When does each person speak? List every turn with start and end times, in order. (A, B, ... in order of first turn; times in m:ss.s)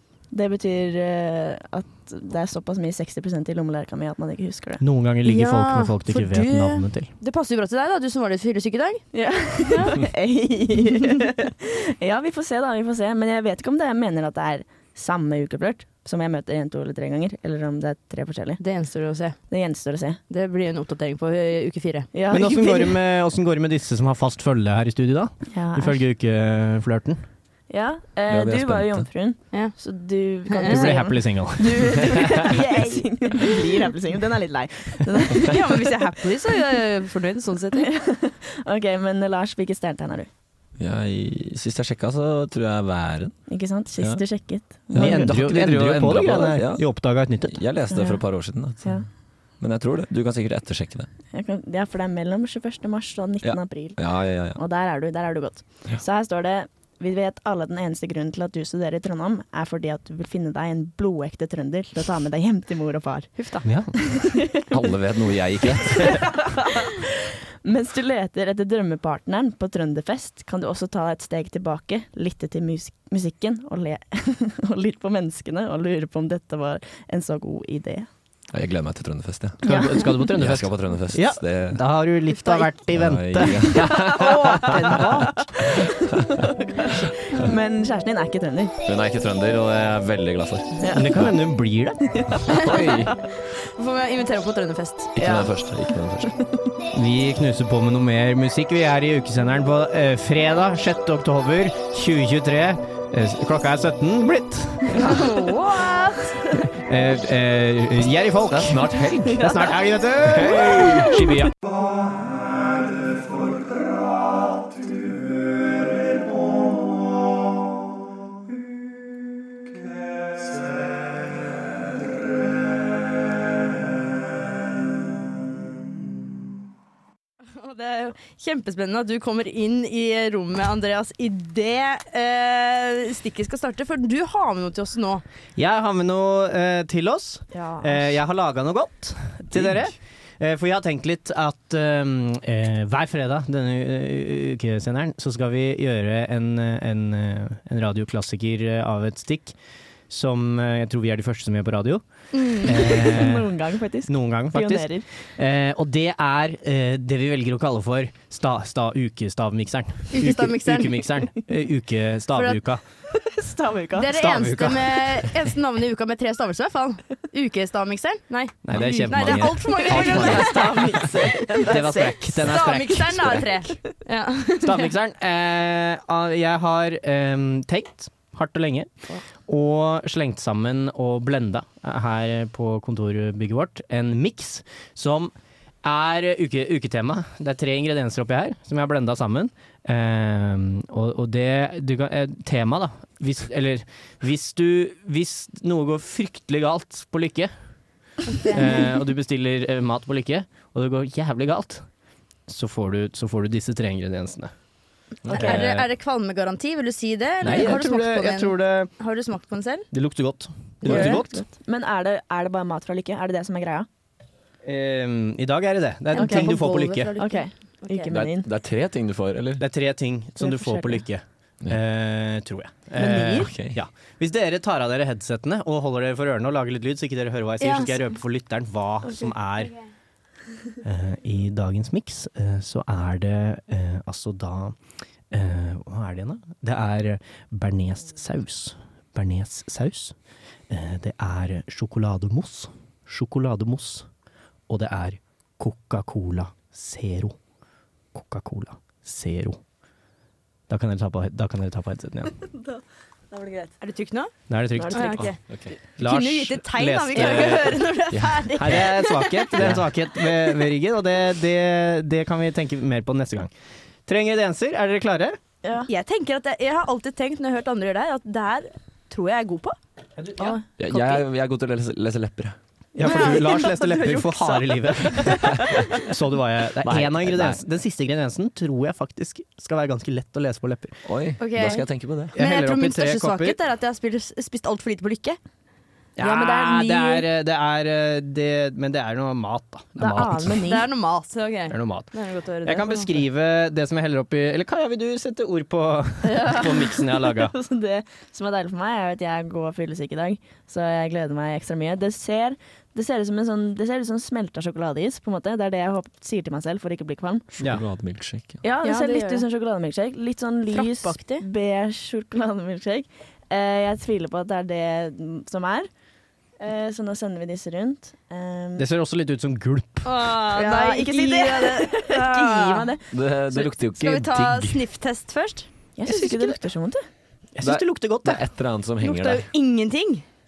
0:00.3-0:04.8 A
0:04.8-0:07.1 B
0:05.2-0:09.1 C
0:09.1-0:18.6 A
0:09.7-0:10.0 C
0:18.6-0:19.4 C
0:19.5-0:20.2 A
0:20.3-0:22.1 C
0:22.1-0:23.0 A
0:22.3-0:27.2 B
0:25.5-0:26.0 A
0:27.7-0:35.9 A
0:28.3-0:29.1 D
0:30.5-0:31.0 C
0:30.7-0:32.4 B
0:35.4-0:37.9 C
0:37.8-0:40.3 A
0:40.8-0:43.4 D
0:43.5-0:45.4 A
0:44.9-0:46.9 D
0:44.9-0:47.6 B
0:47.5-0:49.0 D
0:47.9-0:48.2 A
0:49.6-0:51.1 D
0:51.3-1:03.3 A
0:53.4-0:54.6 D
1:03.4-1:03.7 C
1:03.6-1:03.9 B
1:04.1-1:04.6 A
1:04.7-1:06.2 D
1:07.6-1:18.1 A
1:18.5-1:19.6 D
1:19.6-1:24.1 B
1:19.7-1:20.1 A
1:20.3-1:21.8 D
1:22.9-1:25.3 D
1:23.7-1:28.7 A
1:24.6-1:25.2 B
1:28.9-1:31.3 D
1:30.8-1:31.2 A
1:30.9-1:32.0 B
1:32.6-1:33.1 D
1:33.8-1:35.1 C
1:35.2-1:36.3 D
1:35.2-1:35.5 A
1:36.9-1:45.2 B
1:45.0-1:46.2 C
1:46.9-1:51.5 B
1:48.5-1:49.4 D
1:50.3-1:51.1 D
1:50.5-1:51.2 A
2:07.5-2:15.2 C
2:15.6-2:29.6 B
2:17.5-2:18.1 A
2:30.1-2:32.0 B
2:32.3-2:32.9 C
2:32.6-2:33.5 B
2:32.7-2:35.1 A
2:34.1-2:42.8 B
2:40.1-2:41.0 C
2:42.3-2:42.6 C
2:43.2-2:44.2 A
2:44.0-2:51.1 C
2:44.1-2:45.2 B
2:48.6-2:50.8 B
2:49.4-2:52.6 A
2:51.6-2:53.5 B
2:52.4-2:54.9 C
2:54.6-2:58.9 B
2:59.5-3:17.5 B
3:18.3-3:18.9 C
3:18.5-3:21.9 B
3:22.5-3:24.5 B
3:25.3-3:25.5 D
3:25.3-3:25.9 B
3:25.3-3:29.9 C
3:27.4-3:28.9 B
3:29.9-3:31.4 B
3:30.8-3:31.2 C
3:30.8-3:33.9 A
3:34.6-3:37.1 B
3:36.1-3:38.1 C
3:36.1-3:38.5 A
3:38.1-3:39.6 D
3:39.6-3:49.7 B
3:40.4-3:41.1 A
3:43.0-3:43.5 A
3:43.4-3:43.8 D
3:47.6-3:48.1 C
3:50.8-3:54.8 B
3:55.3-4:00.2 B
4:00.7-4:04.1 B
4:04.7-4:07.4 B
4:08.1-4:09.6 B
4:10.7-4:12.3 B
4:12.4-4:13.7 A
4:13.8-4:14.3 C
4:14.5-4:15.3 B
4:14.8-4:15.3 A
4:14.9-4:15.4 C
4:15.4-4:15.8 D
4:16.0-4:17.8 B
4:16.0-4:19.6 C
4:17.2-4:17.6 A
4:18.1-4:18.7 D
4:18.6-4:23.5 B
4:19.6-4:19.9 D
4:24.1-4:25.4 B
4:25.6-4:25.9 A
4:25.9-4:29.8 C
4:30.2-4:30.5 B
4:30.4-4:30.6 A
4:30.4-4:31.2 C
4:30.8-4:32.6 D
4:33.0-4:35.4 B
4:33.0-4:35.9 A
4:33.0-4:34.2 C
4:36.1-4:41.0 B
4:36.8-4:37.6 D
4:41.0-4:42.3 D
4:41.4-4:45.4 C
4:42.4-4:43.6 B
4:46.2-4:50.7 B
4:46.2-4:47.2 A
4:50.0-4:50.9 A
4:50.7-4:53.2 C
4:51.7-4:52.1 B
4:52.6-4:57.5 B
4:56.2-5:07.5 A
5:07.6-5:08.6 D
5:08.6-5:15.9 A
5:08.8-5:09.4 C
5:10.7-5:11.4 C
5:16.6-5:18.9 A
5:18.8-5:20.1 B
5:20.0-5:22.9 C
5:20.2-5:23.0 A
5:23.1-5:24.8 D
5:23.5-5:25.7 C
5:26.0-5:27.0 A
5:26.0-5:26.6 B
5:27.6-5:28.4 B
5:27.6-5:29.5 D
5:29.0-5:30.2 C